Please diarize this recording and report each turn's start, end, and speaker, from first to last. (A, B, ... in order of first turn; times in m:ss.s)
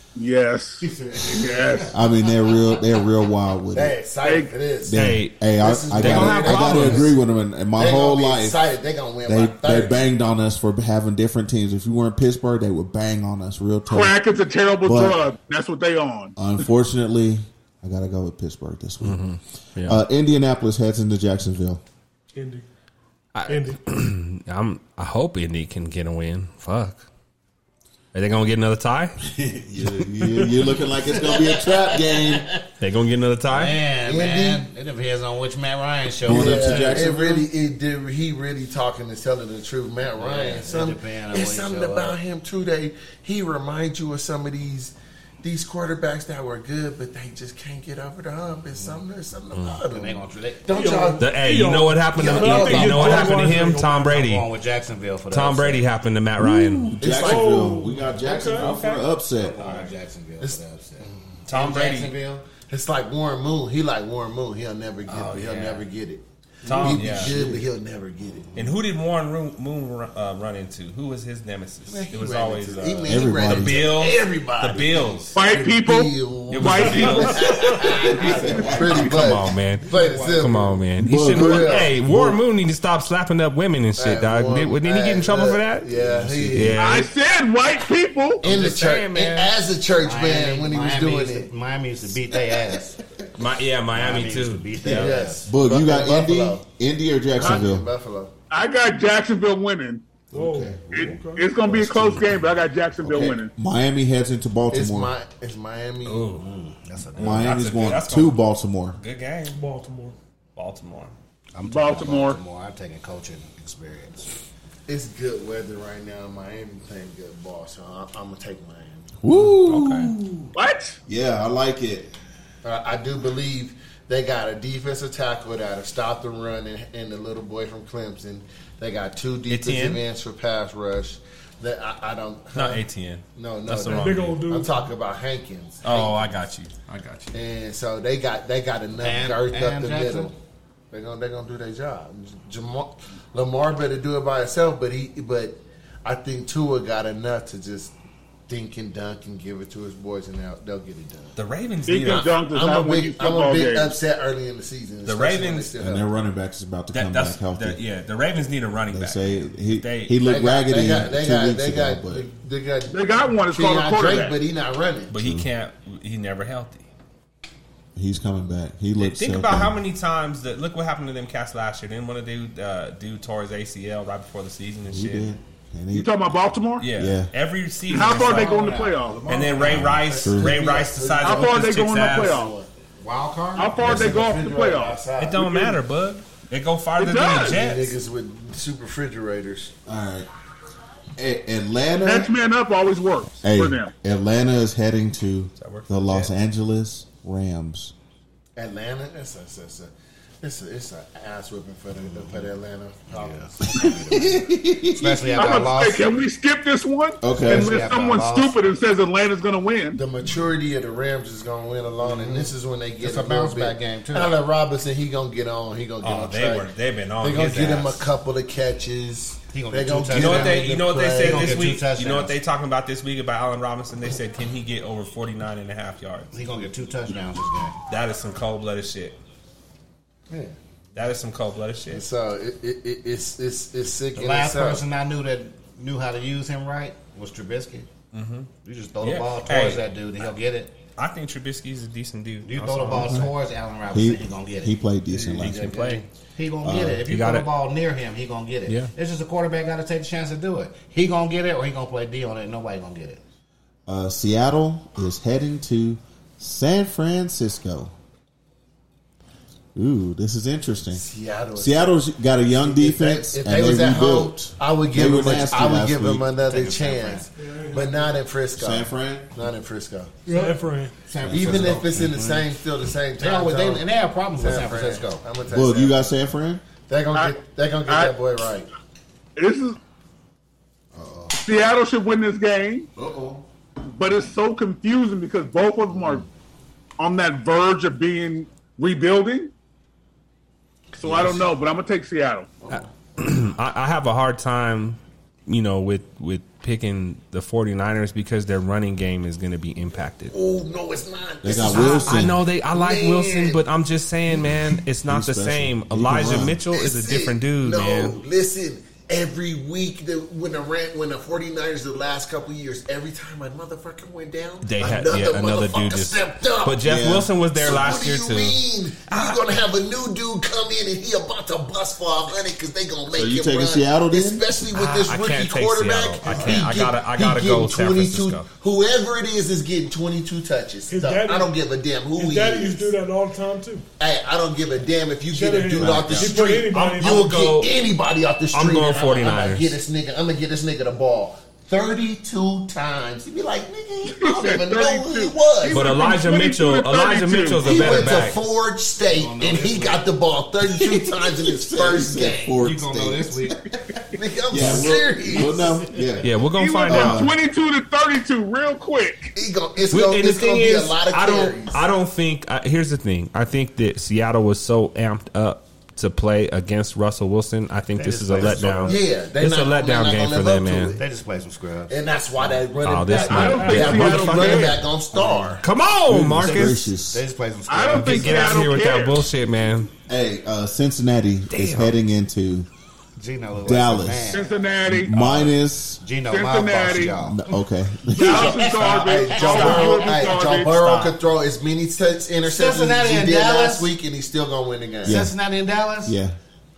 0:00.2-0:02.0 A
0:00.8-0:01.9 B
0:01.9-0:04.0 C
0:03.7-0:07.2 D
0:04.2-0:04.5 A
0:04.9-0:08.6 C
0:04.9-0:07.1 E
0:07.8-0:10.1 D
0:09.2-0:14.2 C
0:13.9-0:16.4 A
0:14.8-0:15.2 C
0:16.4-0:19.2 C
0:19.0-0:20.0 E
0:19.8-0:21.8 C
0:22.4-0:22.7 F
0:23.3-0:27.1 E
0:23.5-0:23.8 F
0:28.1-0:29.2 E
0:29.4-0:32.5 C
0:31.1-0:32.3 B
0:32.8-0:33.8 E
0:33.5-0:37.0 B
0:34.0-0:34.6 D
0:36.2-0:37.5 C
0:36.2-0:51.4 D
0:40.1-0:42.2 B
0:48.7-0:49.0 B
0:49.5-0:49.8 E
0:49.9-0:50.7 B
0:50.7-0:54.0 F
0:51.2-0:54.5 E
0:52.2-0:53.5 D
0:53.0-0:55.8 B
0:55.3-0:57.0 E
0:56.4-0:59.6 C
0:57.0-0:57.7 D
0:57.1-0:58.8 F
0:58.6-0:59.0 E
0:59.4-1:02.5 B
0:59.6-0:59.9 E
1:00.4-1:01.2 D
1:01.5-1:02.2 E
1:02.6-1:08.6 D
1:05.1-1:05.7 E
1:05.2-1:05.8 B
1:06.6-1:07.4 E
1:06.7-1:07.6 C
1:08.6-1:15.4 E
1:11.9-1:22.0 D
1:13.1-1:13.9 C
1:15.4-1:17.5 A
1:16.5-1:17.7 E
1:17.8-1:19.2 C
1:18.9-1:25.9 E
1:19.9-1:20.5 B
1:21.0-1:22.4 C
1:24.0-1:27.1 D
1:25.9-1:26.8 C
1:26.5-1:27.1 E
1:26.8-1:28.4 A
1:28.4-1:29.7 E
1:28.4-1:31.5 D
1:30.0-1:33.0 B
1:33.4-1:35.1 E
1:33.9-1:35.5 B
1:34.8-1:37.9 C
1:34.9-1:36.6 D
1:37.3-1:38.3 D
1:38.5-1:40.0 A
1:40.3-1:45.1 C
1:40.3-1:41.5 F
1:40.9-1:43.5 A
1:44.7-1:46.3 D
1:46.0-1:46.4 E
1:46.4-1:47.6 B
1:47.2-1:48.4 E
1:47.2-1:49.0 C
1:49.0-1:49.6 E
1:49.5-1:50.2 F
1:50.6-1:51.1 E
1:51.6-1:54.3 B
1:51.7-1:52.4 A
1:54.9-1:59.2 D
1:59.2-2:00.6 C
1:59.3-2:00.1 E
2:00.6-2:01.0 A
2:01.1-2:02.1 C
2:02.6-2:16.4 D
2:09.5-2:10.0 E
2:12.5-2:14.4 E
2:13.8-2:14.9 F
2:15.8-2:17.3 E
2:17.3-2:20.4 D
2:19.0-2:20.3 B
2:20.9-2:28.0 D
2:28.5-2:31.4 D
2:31.4-2:32.4 E
2:31.9-2:34.0 A
2:32.1-2:36.1 D
2:35.0-2:35.7 E
2:35.8-2:37.8 C
2:36.9-2:40.2 E
2:38.9-2:42.3 C
2:40.2-2:45.1 D
2:42.9-2:44.4 A
2:45.1-2:46.9 E
2:45.2-2:45.5 C
2:48.0-2:49.8 C
2:49.0-2:55.3 E
2:54.9-2:56.4 C
2:55.9-2:56.9 A
2:56.8-2:58.6 E
2:56.9-2:57.3 C
2:57.9-2:59.2 A
2:58.1-3:02.7 D
2:58.2-3:00.7 C
2:59.3-3:02.4 E
3:01.2-3:02.5 A
3:03.0-3:03.7 B
3:03.6-3:05.0 A
3:03.7-3:05.7 D
3:03.8-3:04.2 C
3:05.2-3:08.0 E
3:07.0-3:07.6 A
3:07.3-3:09.8 D
3:09.9-3:10.3 C
3:11.2-3:12.3 C
3:12.0-3:13.9 A
3:13.4-3:17.9 C
3:15.6-3:16.3 E
3:18.6-3:24.3 D
3:22.0-3:22.5 B
3:23.1-3:26.1 B
3:24.1-3:25.6 C
3:25.4-3:30.0 A
3:27.2-3:27.9 C
3:27.3-3:28.6 B
3:30.0-3:41.8 D
3:32.0-3:34.3 B
3:36.0-3:38.0 E
3:39.5-3:42.4 B
3:40.1-3:46.3 E
3:46.3-3:47.8 B
3:47.9-3:49.2 E
3:50.3-3:50.6 D
3:50.9-3:52.0 E
3:51.9-3:54.8 D
3:54.2-3:57.9 B
3:58.1-3:58.5 E
3:58.6-4:00.8 B
3:59.0-3:59.8 E
4:01.0-4:03.4 E
4:02.4-4:04.8 B
4:02.9-4:03.3 C
4:03.9-4:05.7 C
4:05.1-4:06.0 D
4:05.4-4:13.2 B
4:05.4-4:06.0 E
4:06.6-4:07.0 C
4:07.0-4:07.5 E
4:13.9-4:17.9 C
4:19.8-4:21.0 C
4:20.9-4:22.0 D
4:21.6-4:26.3 C
4:22.5-4:30.2 D
4:26.4-4:27.3 B
4:27.4-4:28.1 F
4:28.6-4:29.3 C
4:30.3-4:31.0 F
4:31.0-4:32.5 B
4:31.2-4:31.9 C
4:31.2-4:36.1 D
4:33.2-4:35.2 B
4:35.5-4:36.6 C
4:36.9-4:38.7 D
4:37.9-4:38.1 A
4:39.4-4:39.8 A
4:40.9-4:41.4 C
4:41.4-4:42.9 A
4:43.0-4:43.5 C
4:43.8-4:46.3 A
4:47.0-4:49.5 A
4:51.0-4:52.5 A
4:52.7-5:00.3 E
5:00.3-5:03.6 D
5:01.4-5:02.4 C
5:01.6-5:08.2 E
5:04.4-5:06.6 C
5:06.7-5:16.9 D
5:14.6-5:19.4 E
5:16.8-5:17.4 C
5:17.5-5:32.9 D
5:23.1-5:24.4 C
5:24.7-5:28.5 E
5:26.3-5:26.6 C
5:30.9-5:31.5 F
5:32.2-5:33.8 F
5:34.0-5:45.9 D
5:35.3-5:37.3 F
5:35.8-5:36.4 C
5:36.7-5:37.8 E
5:38.5-5:39.8 E
5:44.1-5:47.9 A
5:45.7-5:48.4 E
5:47.6-5:52.6 D
5:49.1-5:50.1 B
5:50.6-5:53.7 C
5:52.6-5:53.6 B
5:54.1-5:55.8 D
5:54.5-5:57.4 C
5:56.2-5:57.3 E
5:56.6-5:59.3 A
5:59.4-6:01.9 D
5:59.9-6:11.0 E
6:08.0-6:09.0 B
6:08.8-6:11.0 D
6:11.0-6:12.6 B
6:11.9-6:15.6 D
6:12.8-6:16.9 E
6:13.2-6:14.8 A
6:13.2-6:13.9 F
6:16.1-6:17.2 C
6:17.1-6:18.7 B
6:17.7-6:19.3 A
6:17.9-6:19.9 E
6:20.1-6:22.7 C
6:21.5-6:21.9 E
6:23.2-6:24.4 B
6:23.6-6:26.0 C
6:24.3-6:25.1 A
6:26.0-6:27.5 B
6:26.3-6:27.2 A
6:27.2-6:28.6 C
6:28.1-6:30.8 A
6:28.3-6:30.0 B
6:28.3-6:35.2 D
6:29.4-6:31.2 E
6:32.4-6:33.9 B
6:35.0-6:35.4 C
6:35.0-6:36.2 B
6:36.0-6:36.4 C